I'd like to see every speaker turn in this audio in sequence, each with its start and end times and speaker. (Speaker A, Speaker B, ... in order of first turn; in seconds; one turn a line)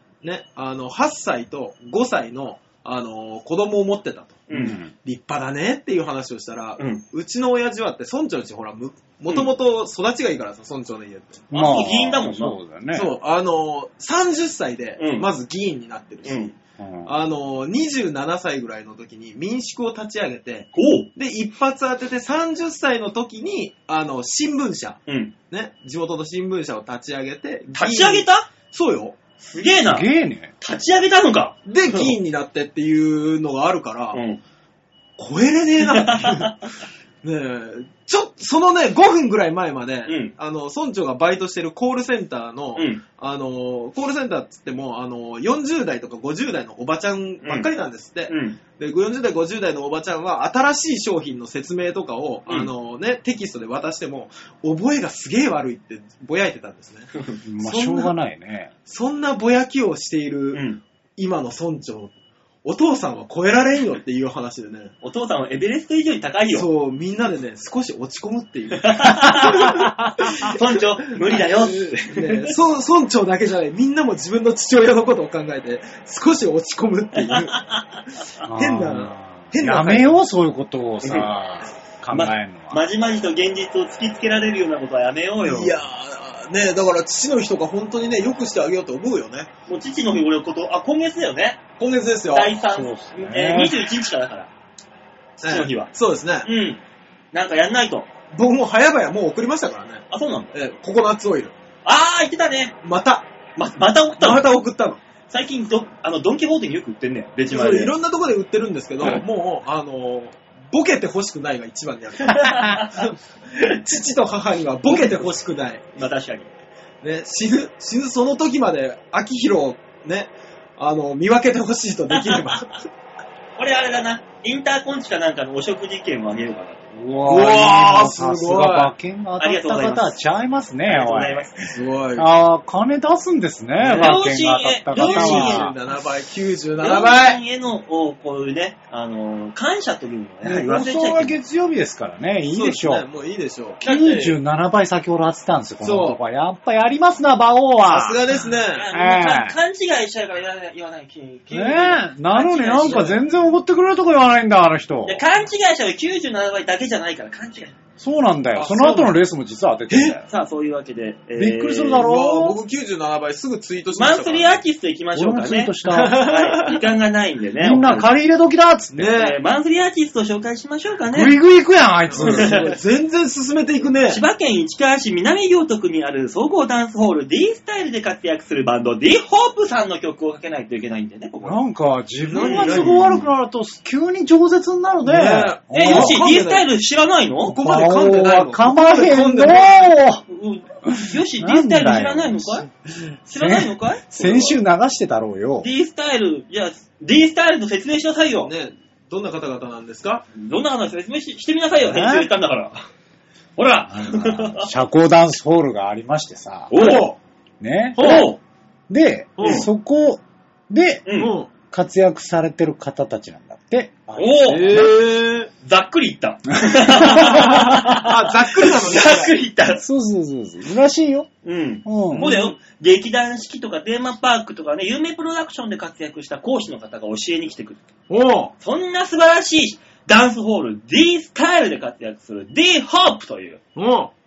Speaker A: 0.2-11.5
Speaker B: 4.5-4.8
Speaker C: 4.5-4.9
Speaker B: 6.8-7.0
Speaker B: 11.5-12.6
Speaker C: 11.5-13.1
Speaker A: 12.9-16.5
Speaker B: 15.0-15.3
Speaker B: 16.2-16.5
Speaker C: 16.8-17.1
Speaker A: 17.1-29.2
Speaker B: 20.8-21.1
Speaker B: 25.1-25.3
Speaker B: 27.7-28.5
Speaker B: 29.4-30.1
Speaker C: 29.9-30.5
Speaker B: 30.6-32.2
Speaker A: 31.7-34.2
Speaker B: 34.1-34.4
Speaker A: 35.2-36.6
Speaker B: 35.9-36.5
Speaker A: 37.2-58.1
Speaker B: 40.1-40.3
Speaker B: 42.8-43.0
Speaker B: 47.4-47.7
Speaker B: 48.3-48.6
Speaker C: 57.5-58.7
Speaker A: 58.9-60.6
Speaker B: 60.5-60.8
Speaker A: 61.2-62.1
Speaker A: 62.6-64.9
Speaker B: 65.0-66.7
Speaker A: 66.5-70.6
Speaker B: 68.8-72.5
Speaker A: 71.2-77.7
Speaker B: 77.2-78.0
Speaker C: 78.4-82.8
Speaker A: 78.6-80.2
Speaker B: 82.1-85.8
Speaker A: 85.4-89.5
Speaker B: 89.7-91.6
Speaker A: 91.8-92.5
Speaker B: 92.3-94.5
Speaker C: 92.7-93.8
Speaker B: 95.4-95.9
Speaker A: 95.4-96.5
Speaker B: 96.4-96.8
Speaker B: 97.3-98.1
Speaker A: 98.3-101.5
Speaker B: 100.1-100.5
Speaker B: 101.8-102.8
Speaker A: 102.8-103.3
Speaker B: 103.6-104.5
Speaker A: 104.2-105.0
Speaker B: 105.3-108.0
Speaker A: 107.5-115.8
Speaker B: 112.3-113.8
Speaker B: 114.9-115.4
Speaker B: 115.9-116.5
Speaker A: 117.0-122.8
Speaker B: 122.2-122.6
Speaker B: 123.6-126.9
Speaker C: 126.9-135.8
Speaker A: 127.2-128.9
Speaker B: 129.4-130.2
Speaker B: 130.8-131.6
Speaker A: 131.7-132.3
Speaker A: 133.8-134.2
Speaker B: 133.9-135.7
Speaker A: 134.9-137.4
Speaker B: 136.8-141.4
Speaker C: 140.4-143.1
Speaker A: 142.5-143.8
Speaker B: 143.8-144.4
Speaker C: 143.8-149.6
Speaker A: 145.8-146.2
Speaker A: 147.8-148.9
Speaker B: 148.7-153.2
Speaker C: 151.5-155.2
Speaker A: 152.8-153.2
Speaker B: 155.1-157.8
Speaker C: 158.0-160.3
Speaker A: 158.6-159.2
Speaker A: 159.9-160.2
Speaker B: 160.3-162.1
Speaker C: 161.4-162.6
Speaker A: 162.0-164.6
Speaker B: 163.9-168.1
Speaker C: 165.2-166.4
Speaker A: 165.9-166.9
Speaker C: 167.6-169.2
Speaker A: 168.9-169.4
Speaker B: 169.1-171.3
Speaker C: 171.1-172.6
Speaker A: 172.1-174.2
Speaker B: 172.2-172.5
Speaker B: 174.1-181.6
Speaker C: 181.4-186.2
Speaker A: 182.3-183.3
Speaker B: 182.3-183.1
Speaker A: 185.0-186.7
Speaker B: 185.7-187.6
Speaker A: 187.4-189.9
Speaker C: 187.6-190.2
Speaker B: 190.3-192.7
Speaker C: 190.8-192.7
Speaker C: 193.3-195.7
Speaker B: 193.3-194.6
Speaker B: 195.6-198.5
Speaker A: 198.4-200.3
Speaker B: 200.3-202.8
Speaker C: 201.8-202.3
Speaker B: 203.6-204.7
Speaker C: 203.9-207.0
Speaker B: 206.7-207.1
Speaker A: 206.7-207.2
Speaker C: 207.6-208.3
Speaker A: 208.0-208.3
Speaker B: 208.0-208.4
Speaker C: 208.9-211.1
Speaker A: 209.4-209.7
Speaker B: 209.4-209.7
Speaker B: 211.1-211.3
Speaker A: 211.2-211.5
Speaker C: 211.7-215.0
Speaker B: 214.2-214.9
Speaker A: 214.5-215.5
Speaker B: 215.6-219.8
Speaker C: 216.7-217.6
Speaker A: 217.0-219.4
Speaker C: 219.8-221.3
Speaker B: 221.4-227.8
Speaker C: 221.8-222.3
Speaker A: 222.1-222.5
Speaker A: 228.1-228.5
Speaker B: 228.6-233.6
Speaker A: 233.8-234.1